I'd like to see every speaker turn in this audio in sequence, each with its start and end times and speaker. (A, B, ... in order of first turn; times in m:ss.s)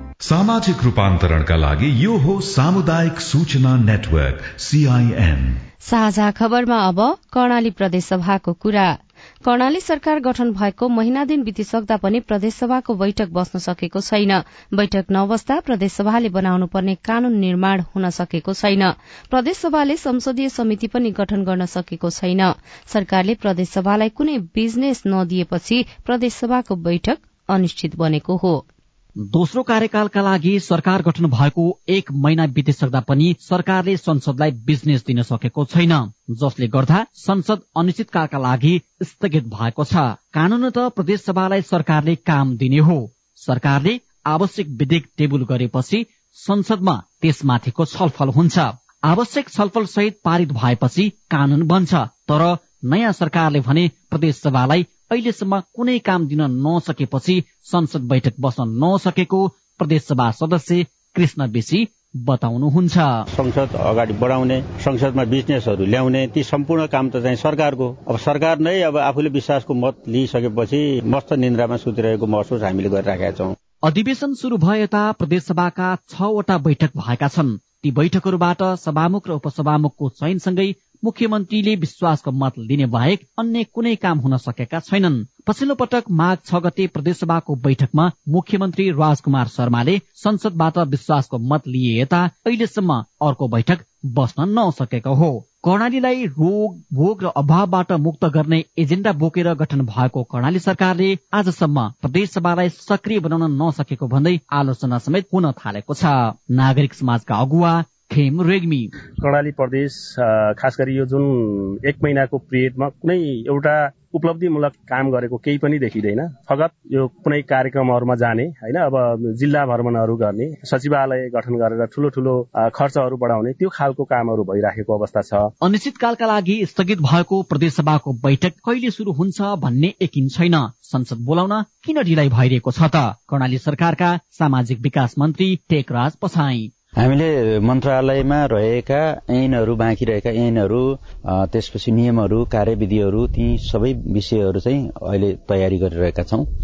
0:00.2-0:05.6 A
0:05.8-0:28.6 B
0:29.3-1:03.2 C
1:03.3-1:13.5 D
1:13.8-1:48.9 C
1:49.2-2:05.5 E
2:05.6-2:16.7 C
2:17.0-2:26.5 F